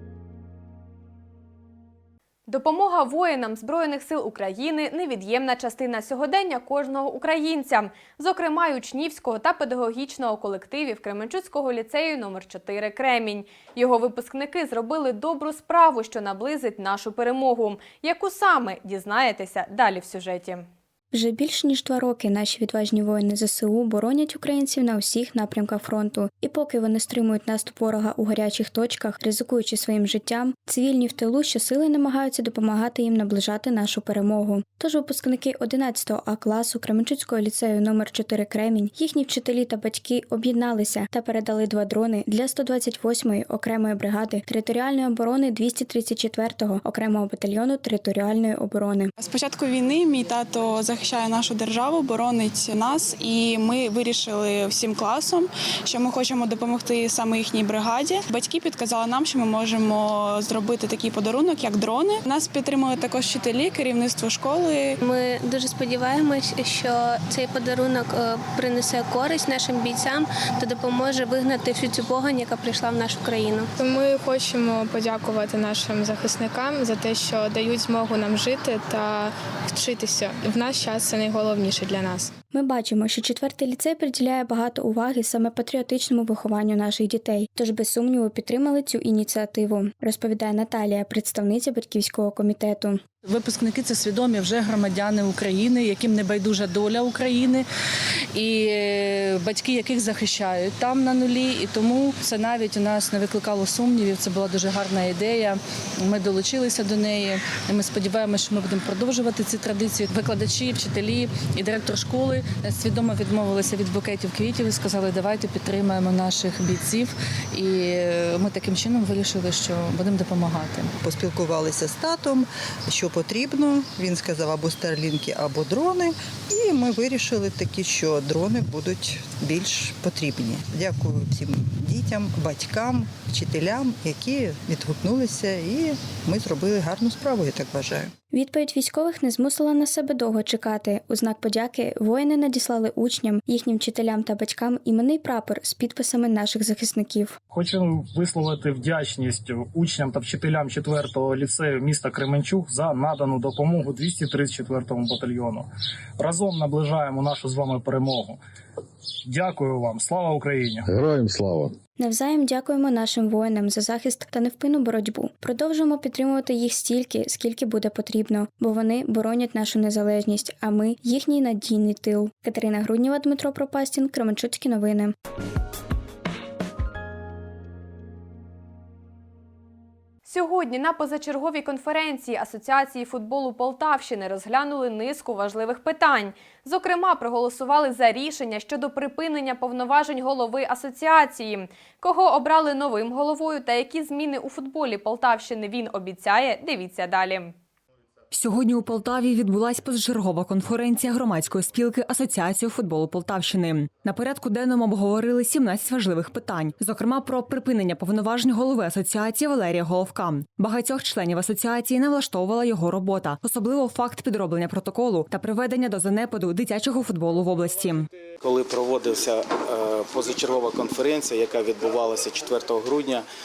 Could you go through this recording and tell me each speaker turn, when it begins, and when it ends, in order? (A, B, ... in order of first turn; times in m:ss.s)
0:02.5-0:20.7 A
0:21.1-0:49.1 B
0:49.2-1:05.0 C
1:05.0-1:13.7 D
1:13.8-1:22.3 E
1:22.5-1:33.0 B
1:33.2-1:37.6 F
1:38.3-2:00.9 F
2:01.0-2:18.1 G
2:18.3-2:27.4 B
2:27.5-2:35.7 H
2:36.2-2:38.4 H
2:39.3-2:40.9 H
2:40.8-2:41.8 G
2:42.0-2:55.1 B
3:00.2-3:17.5 A
3:18.3-3:38.1 I
3:38.4-3:43.2 J